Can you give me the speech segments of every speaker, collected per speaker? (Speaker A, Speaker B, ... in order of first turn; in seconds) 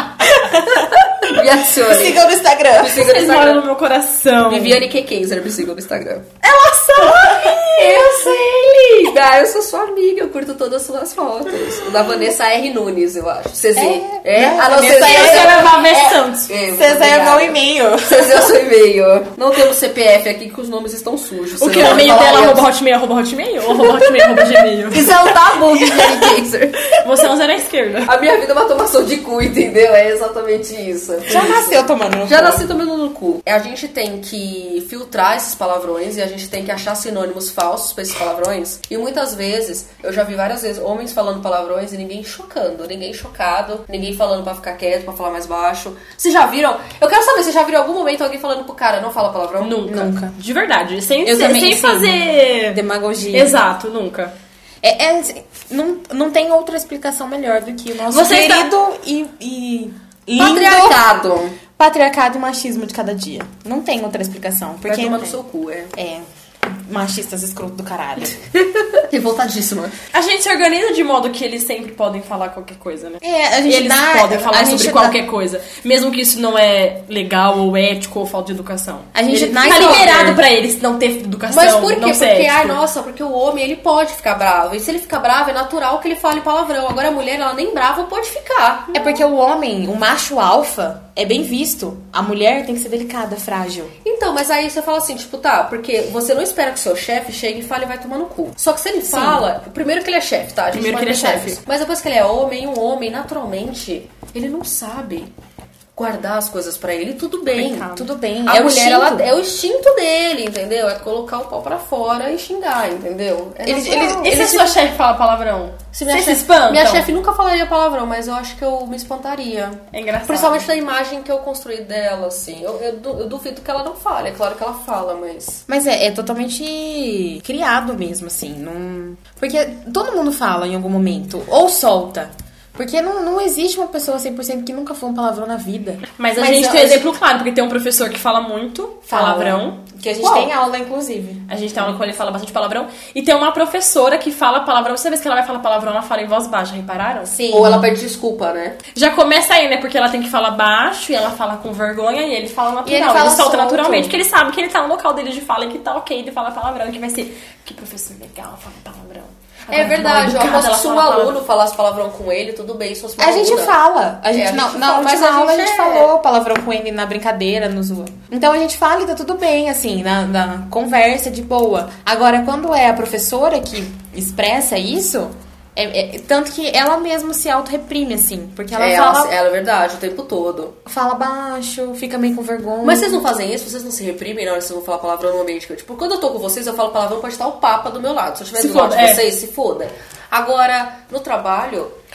Speaker A: 0.4-0.9, 1.8-3.0, 6.4-8.3, 13.8-16.0, 16.7-18.5, 31.3-32.7, 49.9-50.4, 51.2-53.5, 54.8-61.0, 61.8-65.4, 66.0-68.4, 73.2-75.2, 79.1-80.4, 88.9-93.9, 99.1-99.5, 107.9-109.3, 113.6-114.8, 125.7-137.1, 139.1-141.5, 147.3-147.9, 152.8-154.2, 163.2-179.3, 180.9-183.3
Speaker B: 0.5-3.6, 4.5-6.3, 7.4-22.6, 24.9-27.0, 28.1-49.9, 60.4-61.6, 64.8-65.9, 68.7-70.0, 79.7-80.0, 81.5-89.2, 94.0-105.3, 106.0-107.9, 108.5-114.4, 115.9-125.6, 140.2-140.5, 147.5-148.8, 159.7-163.8, 164.3-166.1, 178.8-180.8, 182.8-191.9
Speaker C: 2.8-4.8, 7.0-8.1, 14.9-16.5, 21.6-25.2, 27.0-28.1, 49.6-54.3, 58.1-58.7, 70.1-82.8, 100.7-101.6, 107.5-108.1, 113.9-117.1, 119.9-120.7, 136.2-139.8, 141.5-147.3, 148.9-161.4, 188.6-189.2